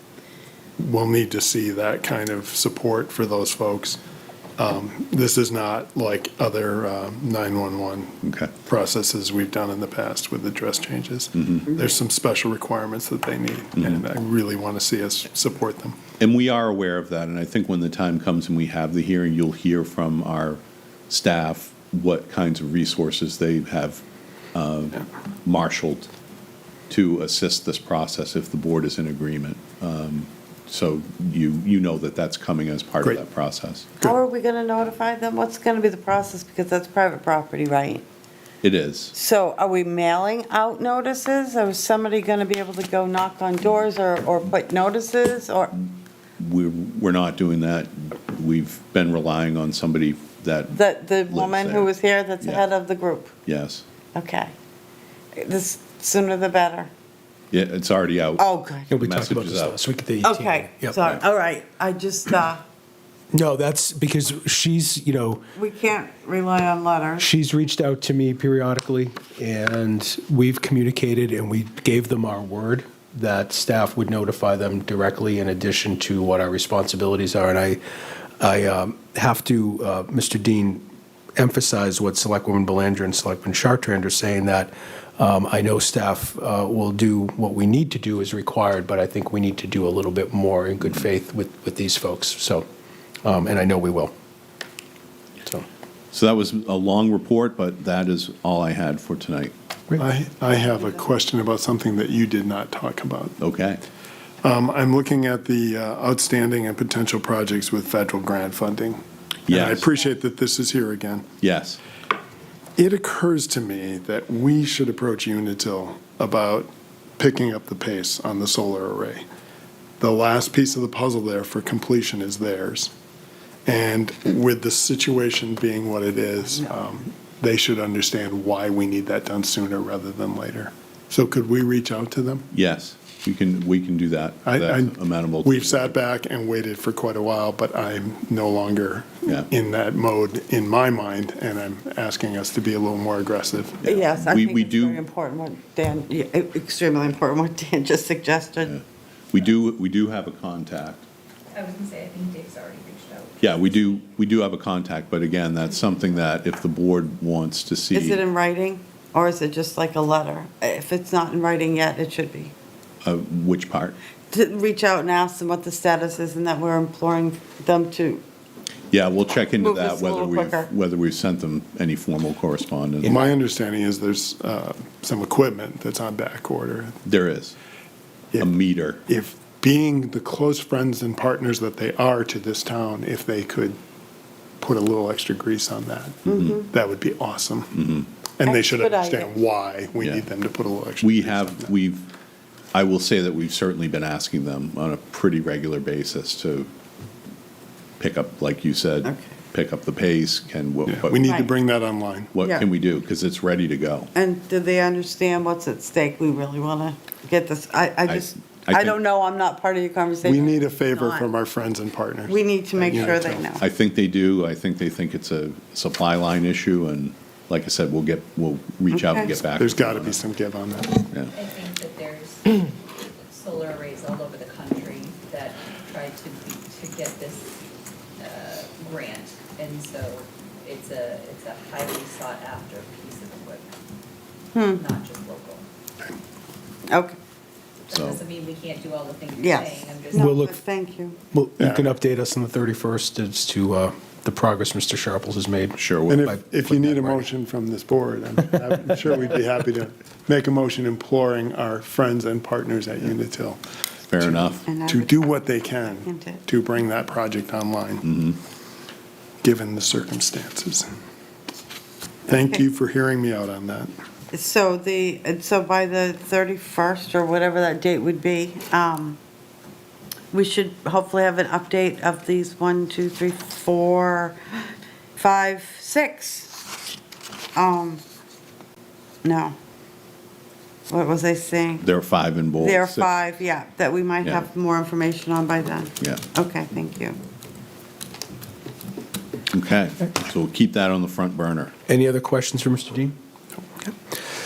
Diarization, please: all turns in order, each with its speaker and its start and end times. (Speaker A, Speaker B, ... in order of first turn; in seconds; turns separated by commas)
Speaker A: 0.8-4.0, Speaker A: 4.6-16.0, Speaker B: 8.2-8.5, Speaker B: 11.3-11.7, Speaker B: 16.2-24.0, Speaker B: 24.5-26.1, Speaker B: 26.9-33.9, Speaker C: 34.0-38.0, Speaker B: 38.6-39.1, Speaker C: 39.1-45.8, Speaker B: 46.4-52.6, Speaker C: 50.7-53.3, Speaker B: 53.5-53.9, Speaker C: 54.1-54.5, Speaker C: 55.4-56.9, Speaker B: 57.5-59.8, Speaker C: 58.4-58.9, Speaker D: 58.9-61.0, Speaker C: 60.2-62.6, Speaker D: 63.3-65.5, Speaker C: 65.6-67.3, Speaker D: 67.2-77.8, Speaker D: 78.4-80.8, Speaker D: 81.4-92.7, Speaker D: 93.2-94.1, Speaker B: 96.1-99.5, Speaker A: 100.0-103.4, Speaker B: 103.4-103.8, Speaker A: 104.4-111.3, Speaker B: 109.5-109.9, Speaker B: 111.4-111.8, Speaker A: 112.8-119.2, Speaker A: 120.0-122.9, Speaker A: 123.7-132.5, Speaker B: 132.5-136.0, Speaker A: 134.4-143.8, Speaker B: 143.8-145.0, Speaker C: 143.8-148.8, Speaker B: 148.7-151.1, Speaker E: 151.5-153.6, Speaker B: 153.4-158.2, Speaker C: 157.9-162.5, Speaker B: 163.0-164.0, Speaker C: 164.3-168.2, Speaker B: 168.9-173.3, Speaker C: 169.6-170.7, Speaker A: 173.0-177.0, Speaker B: 177.1-177.6, Speaker B: 178.4-179.0, Speaker A: 179.1-183.8, Speaker A: 184.6-187.7, Speaker C: 186.3-186.7, Speaker B: 187.7-188.1, Speaker A: 188.4-191.7, Speaker C: 188.4-189.3, Speaker B: 191.0-192.1, Speaker B: 192.7-196.7, Speaker B: 198.0-201.2, Speaker A: 200.9-202.3, Speaker C: 201.2-201.5, Speaker B: 202.3-204.1, Speaker C: 202.4-202.7, Speaker C: 204.1-211.3, Speaker B: 208.1-209.0, Speaker A: 210.2-213.6, Speaker C: 212.3-213.6, Speaker B: 213.6-220.2, Speaker C: 218.9-219.3, Speaker A: 219.3-221.1, Speaker E: 221.3-222.7, Speaker E: 223.3-227.5, Speaker E: 228.2-233.7, Speaker C: 234.5-234.8, Speaker E: 234.8-235.7, Speaker C: 236.9-237.2, Speaker E: 237.9-240.4, Speaker B: 237.9-238.2, Speaker C: 239.4-241.2, Speaker D: 240.1-240.6, Speaker D: 241.3-247.2, Speaker A: 241.6-241.9, Speaker B: 245.8-246.3, Speaker A: 246.1-253.6, Speaker B: 254.1-254.7, Speaker A: 254.2-258.1, Speaker C: 254.7-256.4, Speaker B: 258.0-258.4, Speaker A: 259.4-260.9, Speaker A: 262.3-263.9, Speaker C: 262.3-262.6, Speaker C: 264.3-269.2, Speaker C: 270.3-274.6, Speaker C: 275.2-276.6, Speaker C: 277.6-278.0, Speaker C: 279.2-279.6, Speaker C: 280.9-281.9, Speaker B: 281.8-283.1, Speaker C: 282.6-287.2, Speaker B: 289.5-291.7, Speaker D: 291.9-293.2